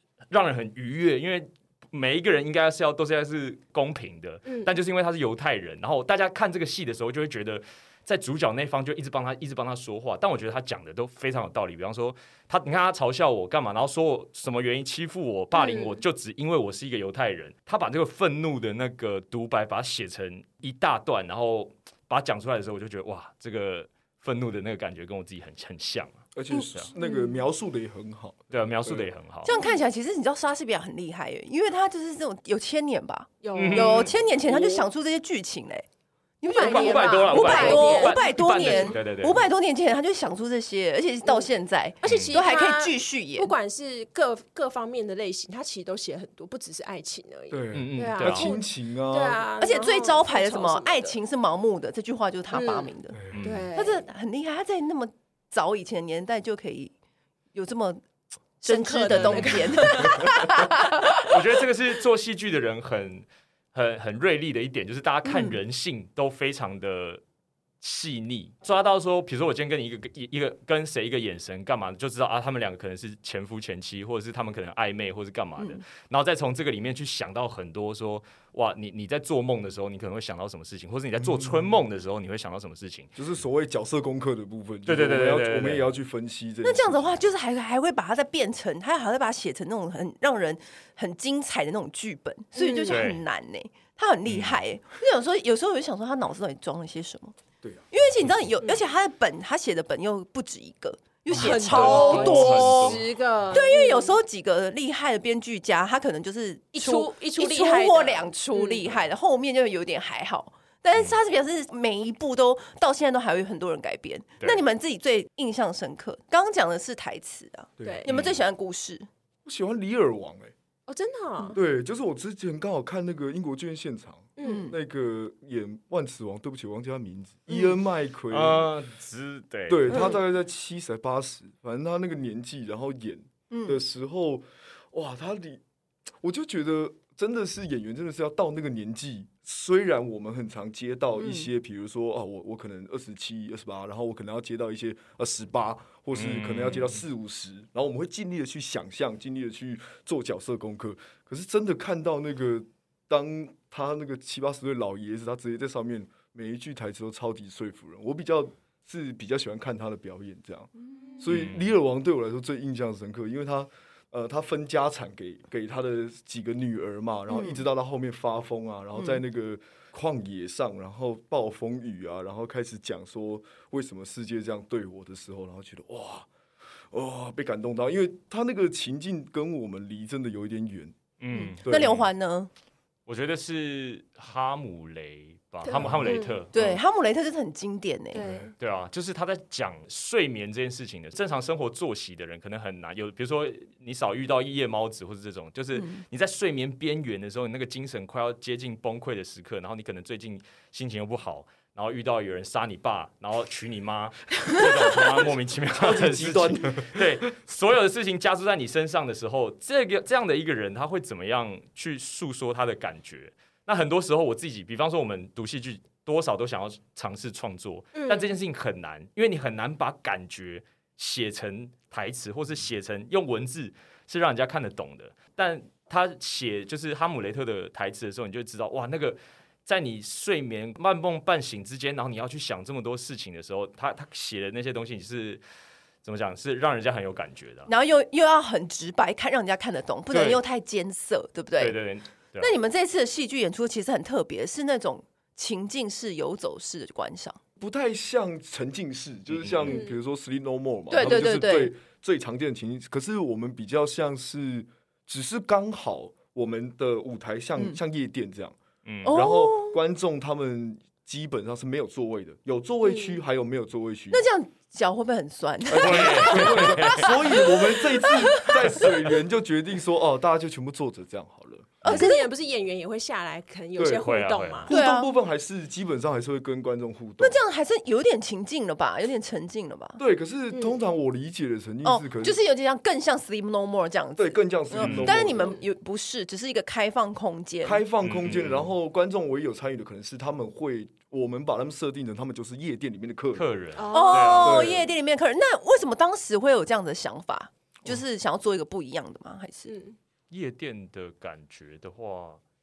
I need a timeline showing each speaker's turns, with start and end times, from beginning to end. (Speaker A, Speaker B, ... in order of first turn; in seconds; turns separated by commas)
Speaker A: 0.3-26.9, Speaker B: 15.6-16.0, Speaker C: 26.4-29.1, Speaker D: 27.0-27.3, Speaker A: 28.5-29.5, Speaker D: 29.4-35.9, Speaker B: 29.5-29.8, Speaker B: 33.4-34.9, Speaker A: 33.5-34.1, Speaker D: 36.4-43.5, Speaker B: 36.5-39.0, Speaker A: 36.5-39.4, Speaker B: 42.0-51.2, Speaker A: 42.0-42.4, Speaker C: 47.5-49.5, Speaker A: 47.7-48.5, Speaker D: 49.6-53.2, Speaker B: 52.5-54.0, Speaker C: 53.1-53.5, Speaker A: 53.3-53.7, Speaker D: 53.8-56.9, Speaker D: 57.5-58.0, Speaker D: 58.6-61.4, Speaker B: 58.7-60.6, Speaker A: 61.2-67.2, Speaker D: 65.2-65.6, Speaker A: 67.8-83.1, Speaker C: 81.2-81.7, Speaker C: 83.2-87.3, Speaker A: 84.9-85.9, Speaker D: 86.6-97.4, Speaker B: 92.6-93.0, Speaker A: 92.9-93.2, Speaker A: 94.3-94.6, Speaker D: 97.9-119.1, Speaker B: 101.3-104.1, Speaker A: 101.3-103.0, Speaker B: 106.7-108.9, Speaker C: 117.8-118.1, Speaker B: 117.8-118.1, Speaker A: 118.1-118.4, Speaker C: 119.5-120.5, Speaker B: 120.9-121.6, Speaker C: 121.5-128.7, Speaker B: 124.4-124.7, Speaker D: 124.4-124.8, Speaker A: 128.3-130.0, Speaker C: 129.7-135.6, Speaker D: 133.5-133.8, Speaker C: 136.2-176.3, Speaker D: 141.2-141.5, Speaker A: 146.1-147.0, Speaker A: 161.3-161.7, Speaker D: 167.3-167.6, Speaker D: 168.9-169.2, Speaker C: 176.9-181.0, Speaker A: 181.2-182.1, Speaker D: 181.3-182.5, Speaker C: 181.6-181.9, Speaker A: 183.1-186.8, Speaker B: 185.7-186.4, Speaker C: 185.8-186.2, Speaker D: 186.5-188.2, Speaker B: 188.1-188.5, Speaker C: 188.2-188.5, Speaker A: 188.6-235.4, Speaker D: 195.8-196.0, Speaker C: 205.8-207.1, Speaker B: 217.9-218.3, Speaker A: 236.0-237.7, Speaker D: 237.7-241.8, Speaker A: 241.6-242.5, Speaker D: 242.4-247.4, Speaker C: 247.6-264.2, Speaker A: 249.3-249.8, Speaker B: 249.7-250.0, Speaker D: 250.9-251.8, Speaker A: 258.9-259.2, Speaker D: 259.1-259.8, Speaker B: 262.8-263.2, Speaker D: 264.1-268.8, Speaker C: 265.7-272.1, Speaker A: 265.7-267.2, Speaker D: 271.8-272.3, Speaker B: 271.9-274.7, Speaker C: 273.8-274.1, Speaker A: 274.0-274.7, Speaker C: 274.6-277.4, Speaker D: 274.7-275.1, Speaker D: 277.2-280.0, Speaker C: 280.0-282.4, Speaker D: 281.8-287.8, Speaker C: 284.2-285.6, Speaker A: 284.8-285.2, Speaker C: 287.6-293.5, Speaker A: 288.0-288.7, Speaker A: 293.4-294.7, Speaker B: 293.8-294.6, Speaker D: 293.9-299.7, Speaker C: 294.4-294.9, Speaker B: 299.7-300.0, Speaker A: 300.3-302.4